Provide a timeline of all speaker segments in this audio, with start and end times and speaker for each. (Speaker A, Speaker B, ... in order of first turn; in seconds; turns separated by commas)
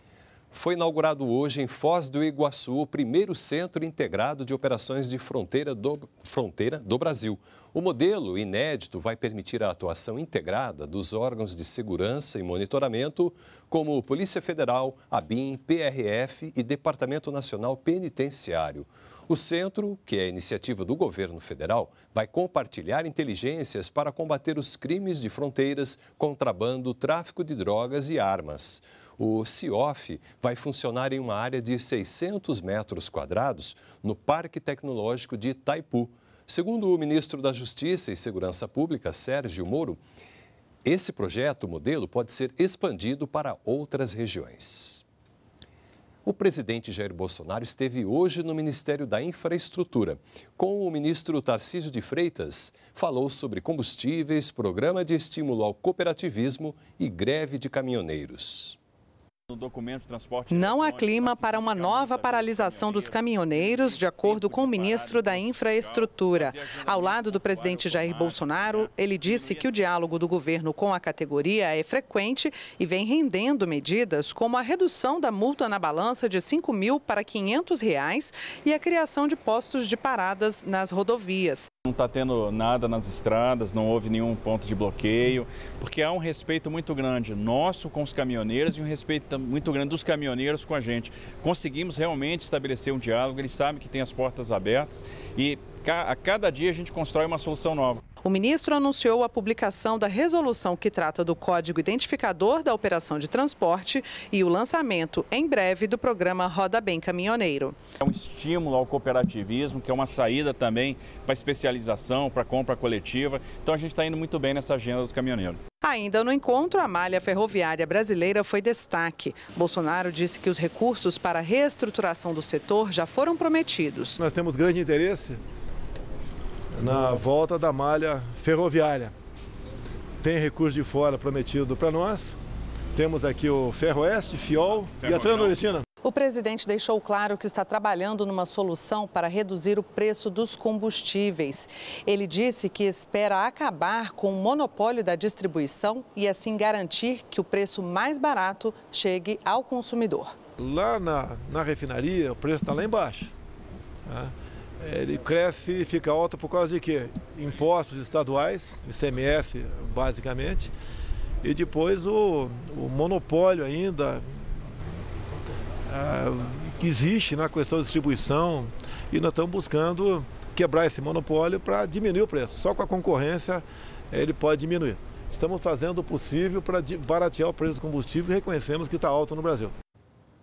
Speaker A: 0.5-40.0, Speaker A: 40.8-45.0, Speaker A: 46.2-58.8, Speaker B: 59.5-69.7, Speaker C: 60.5-81.7, Speaker B: 81.8-98.0, Speaker C: 98.2-107.8, Speaker B: 108.0-115.6, Speaker C: 115.8-124.2, Speaker D: 124.2-125.4, Speaker D: 126.7-129.1, Speaker D: 130.2-132.4, Speaker D: 132.9-135.8, Speaker B: 134.5-135.6, Speaker C: 136.0-150.3, Speaker D: 150.6-153.3, Speaker D: 154.1-160.7, Speaker D: 161.4-164.4, Speaker D: 165.9-179.7